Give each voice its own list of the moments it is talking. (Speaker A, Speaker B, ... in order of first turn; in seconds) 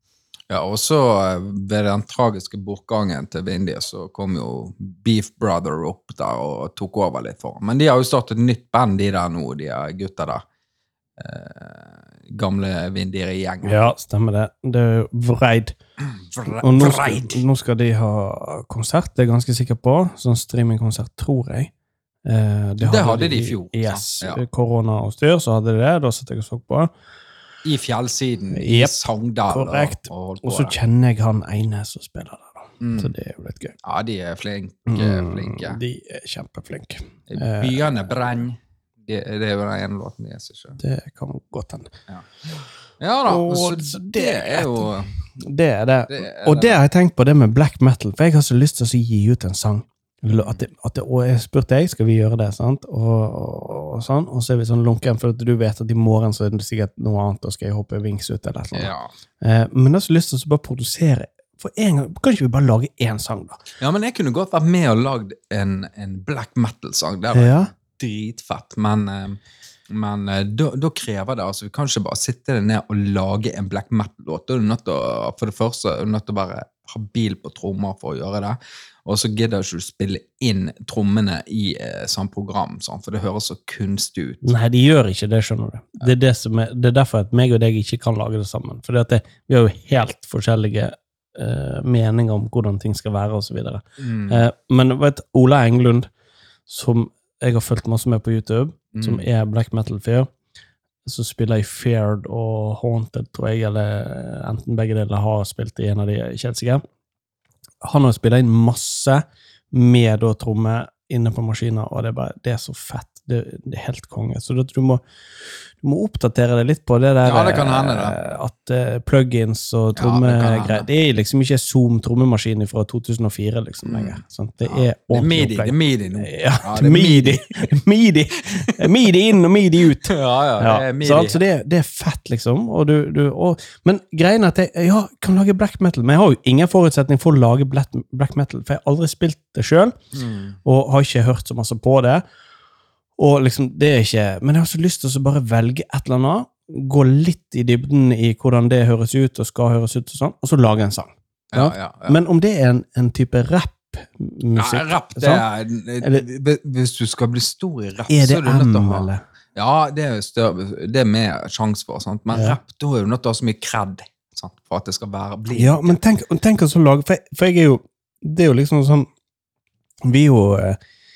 Speaker A: 0.5-10.4, 11.2-13.8, 16.2-17.4, 22.8-24.4, 27.6-30.8, 32.8-33.1, 33.8-35.8, 37.3-40.8, 43.0-45.1, 46.1-46.8, 58.7-59.1, 63.8-84.5, 94.0-94.4, 98.9-99.2, 117.2-118.2, 120.0-120.9, 123.8-127.7, 130.0-131.4, 140.1-140.6, 151.5-152.2, 154.5-166.0
Speaker B: 13.6-15.8, 16.5-21.7, 22.2-26.9, 28.5-28.9, 29.5-33.7, 34.9-37.9, 40.8-41.9, 43.2-63.6, 67.3-67.7, 84.4-96.1, 96.7-100.3, 101.0-106.8, 107.8-115.0, 115.7-139.9, 140.6-142.2, 143.2-155.4, 158.1-159.2, 162.3-162.6, 165.5-169.1, 170.0-170.8